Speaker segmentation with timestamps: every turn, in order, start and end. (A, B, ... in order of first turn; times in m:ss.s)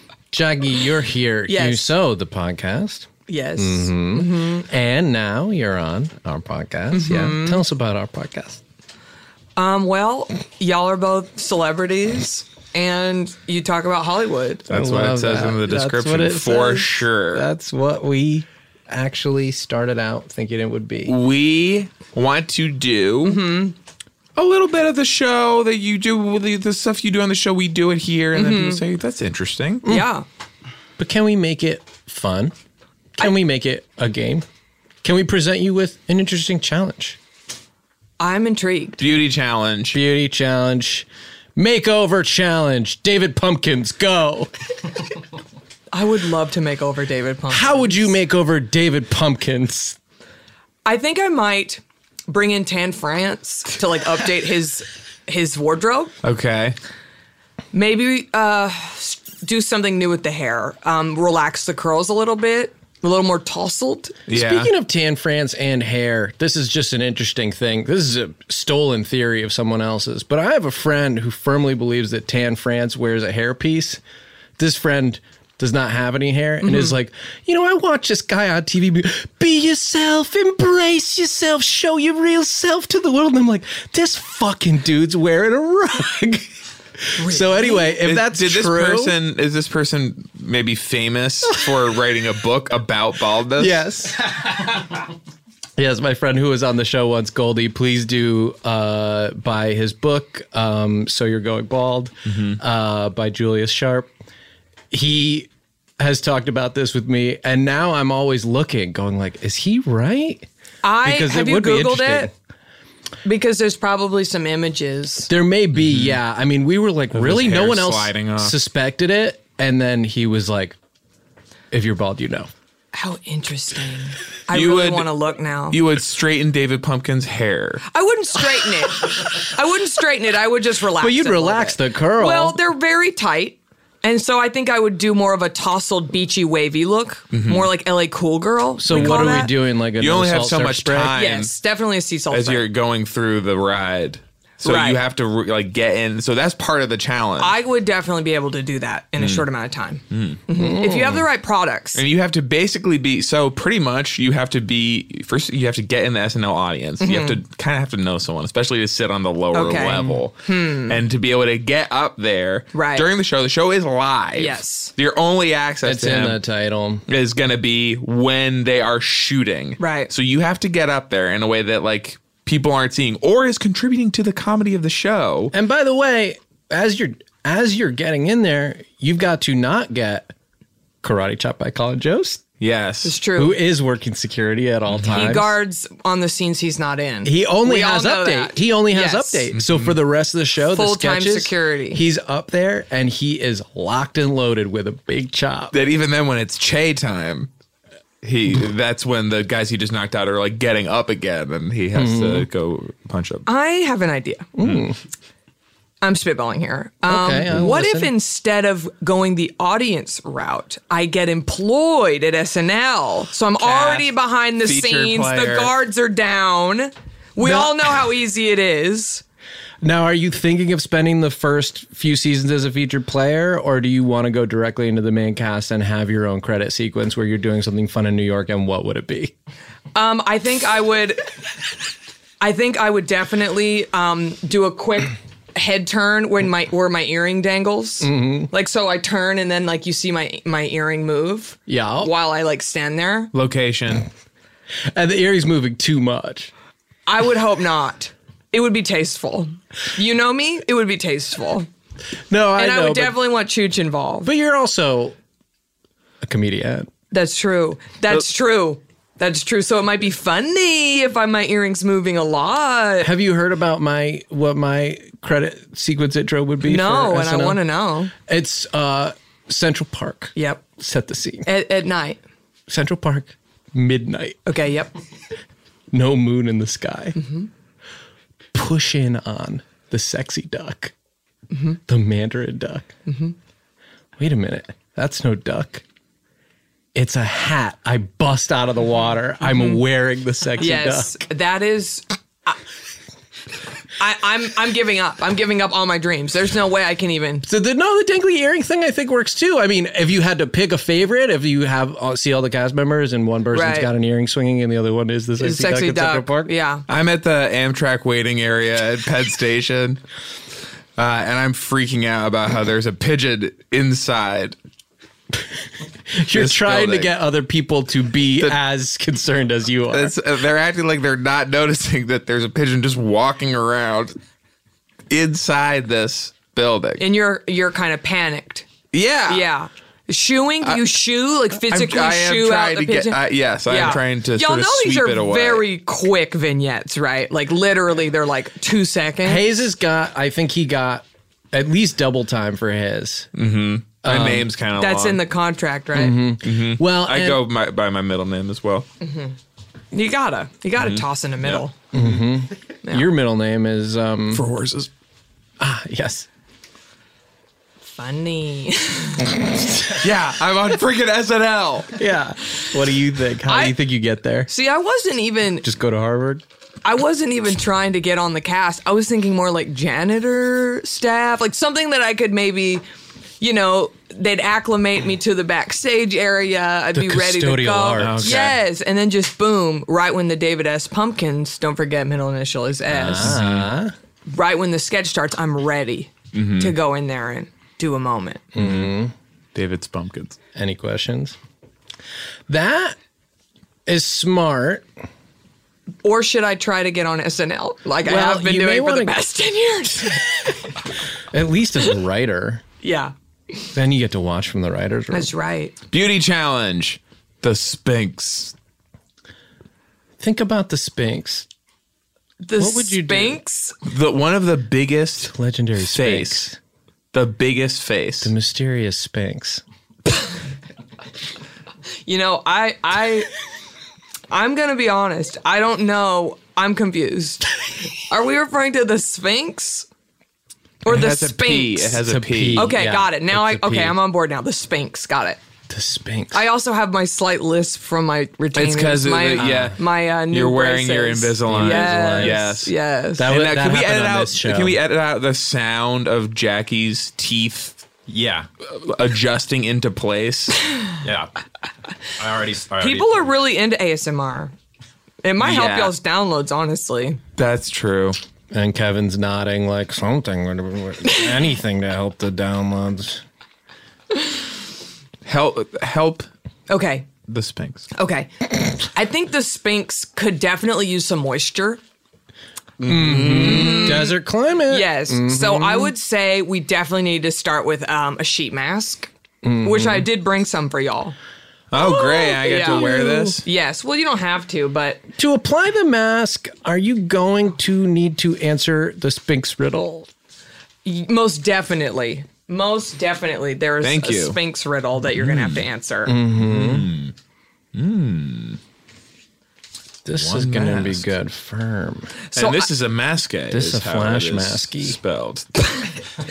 0:00.3-0:08.6 A
0:01.5-0:01.9 B
0:03.3-0:04.7 B
0:06.9-0:07.6 B
0:09.6-0:14.7 B
0:14.7-0:17.4 C
0:14.7-0:21.2 A
0:21.1-0:23.4 C
0:23.2-0:23.8 B
0:24.4-0:29.8 C
0:28.3-0:28.8 B
0:29.9-0:30.2 B
0:31.0-0:32.5 A
0:33.2-0:34.4 A
0:35.0-0:37.2 A
0:38.2-0:39.0 B
0:39.0-0:40.0 C
0:39.9-0:44.5 A
0:45.9-0:48.1 B
0:47.5-0:50.0 A
0:50.8-0:56.1 B
0:56.2-0:56.8 C
0:57.7-1:04.2 B
1:04.3-1:04.7 C
1:04.3-1:14.0 A
1:14.6-1:26.5 A
1:16.6-1:17.0 B
1:27.1-1:29.2 A
1:27.2-1:27.9 B
1:28.0-1:33.8 C
1:33.6-1:34.2 A
1:35.8-1:44.1 A
1:42.3-1:42.6 C
1:44.9-1:50.5 A
1:50.8-1:52.3 B
1:51.0-1:52.3 A
1:53.2-1:55.3 B
1:55.3-2:00.8 A
1:55.8-1:56.2 C
1:57.1-1:58.6 C
2:01.7-2:02.5 A
2:02.9-2:05.8 B
2:04.5-2:05.1 C
2:05.7-2:07.8 C
2:07.9-2:19.5 B
2:11.0-2:12.6 A
2:17.3-2:17.7 C
2:18.8-2:21.2 A
2:18.9-2:19.2 C
2:20.0-2:21.5 C
2:21.2-2:22.6 B
2:22.3-2:27.6 C
2:24.6-2:25.0 B
2:27.4-2:32.0 B
2:29.2-2:29.4 C
2:30.1-2:30.4 C
2:30.6-2:31.2 A
2:32.0-2:46.4 C
2:37.0-2:37.4 B
2:39.5-2:41.0 B
2:42.7-2:43.0 B
2:44.4-2:44.9 B
2:45.8-2:47.0 A
2:47.1-2:55.5 C
2:49.8-2:50.1 B
2:55.5-3:00.3 A
3:01.0-3:02.4 A
3:02.6-3:03.2 C
3:03.0-3:03.6 B
3:03.4-3:05.6 A
3:04.9-3:05.2 C
3:05.1-3:09.5 B
3:07.2-3:15.7 A
3:09.5-3:10.0 C
3:10.7-3:12.0 B
3:15.7-3:17.5 C
3:18.2-3:23.5 C
3:21.9-3:22.5 A
3:23.5-3:24.5 B
3:24.6-3:25.0 A
3:26.0-3:39.2 B
3:27.1-3:28.1 A
3:33.6-3:34.1 C
3:34.6-3:35.7 C
3:37.4-3:37.8 A
3:39.8-3:49.3 A
3:50.0-3:51.3 B
3:52.4-4:03.3 B
3:58.0-3:58.5 A
4:01.7-4:02.1 A
4:03.3-4:04.1 C
4:04.9-4:06.5 A
4:07.1-4:11.7 B
4:12.3-4:13.2 A
4:12.6-4:14.3 B
4:14.2-4:15.2 A
4:16.2-4:16.9 A
4:17.1-4:23.1 B
4:23.0-4:27.6 A
4:26.6-4:28.1 B
4:28.3-4:31.5 A
4:30.4-4:30.6 B
4:31.4-4:32.2 B
4:32.7-4:34.4 A
4:34.5-4:34.9 B
4:35.9-4:37.2 A
4:37.2-4:37.5 B
4:38.5-4:40.9 A
4:41.5-4:41.8 B
4:41.9-4:42.9 A
4:43.1-4:43.4 B
4:44.2-4:45.8 A
4:46.9-4:51.2 A
4:49.4-4:49.8 B
4:50.6-4:52.6 B
4:54.0-4:57.4 B
4:57.4-5:06.5 A
5:03.5-5:03.9 B
5:05.4-5:06.8 B
5:06.9-5:10.0 C
5:11.0-5:14.6 C
5:16.1-5:20.2 A
5:16.3-5:17.1 C
5:19.9-5:24.2 C
5:25.1-5:27.0 C
5:27.0-5:28.7 B
5:28.9-5:29.5 C
5:29.3-5:39.4 B
5:31.5-5:35.6 C
5:39.2-5:43.3 A
5:43.4-5:45.2 C
5:44.0-5:44.5 A
5:44.8-5:46.2 B
5:45.9-5:47.4 A
5:46.4-5:48.9 C
5:49.0-5:49.4 B
5:49.9-5:51.7 B
5:50.8-5:52.0 C
5:51.9-5:54.4 A
5:54.3-5:54.9 C
5:55.6-5:56.3 A
5:57.9-5:59.4 B
5:59.4-6:00.0 A
6:00.0-6:02.0 C
6:02.0-6:04.5 A
6:03.5-6:03.8 B
6:04.5-6:05.7 B
6:05.6-6:06.4 A
6:06.8-6:12.8 B
6:13.4-6:23.4 B
6:16.9-6:18.5 A
6:18.0-6:18.6 C
6:23.0-6:23.7 C
6:23.0-6:23.9 A
6:24.3-6:28.4 B
6:26.3-6:26.7 C
6:28.5-6:29.1 A
6:28.6-6:28.9 C
6:29.6-6:30.4 C
6:30.6-6:31.4 A
6:32.5-6:33.0 A
6:33.9-6:34.9 A
6:36.0-6:40.7 B
6:38.0-6:39.2 A
6:41.3-6:42.6 A
6:42.8-6:43.1 B
6:43.7-6:45.3 A
6:45.1-6:45.7 B
6:45.9-6:48.5 C
6:50.2-6:51.5 A
6:52.4-6:53.8 B
6:52.6-6:53.4 A
6:53.8-6:56.4 C
6:55.2-6:56.6 A
6:57.1-6:58.3 C
6:58.2-6:59.6 A
7:02.1-7:03.3 B
7:04.3-7:09.9 B
7:10.8-7:12.0 B
7:10.9-7:12.7 C
7:12.0-7:14.0 A
7:12.6-7:15.4 B
7:15.7-7:16.5 A
7:16.3-7:23.3 B
7:18.6-7:22.7 C
7:19.4-7:19.8 A
7:21.5-7:22.5 A
7:23.2-7:24.8 A
7:23.3-7:27.8 C
7:28.1-7:28.5 D
7:28.7-7:30.6 C
7:31.0-7:31.3 D
7:32.2-7:33.3 D
7:32.8-7:34.5 B
7:35.2-7:37.2 B
7:35.4-7:35.9 C
7:37.4-7:38.2 C
7:38.5-7:43.2 A
7:45.2-7:46.3 C
7:46.7-7:47.1 B
7:47.3-7:47.9 C
7:48.0-7:51.8 B
7:52.8-7:54.1 C
7:52.8-7:55.9 A
7:53.4-7:59.1 B
7:59.4-8:00.1 A
7:59.6-8:01.2 B
8:01.7-8:03.4 C
8:01.7-8:05.0 B
8:02.6-8:03.4 A
8:05.2-8:10.1 A
8:10.8-8:16.2 B
8:13.8-8:14.4 C
8:15.1-8:15.6 C
8:16.1-8:16.9 A
8:16.4-8:17.1 C
8:17.8-8:18.6 C
8:20.0-8:22.1 A
8:20.1-8:21.1 C
8:22.3-8:22.7 B
8:22.4-8:25.5 C
8:23.5-8:25.0 A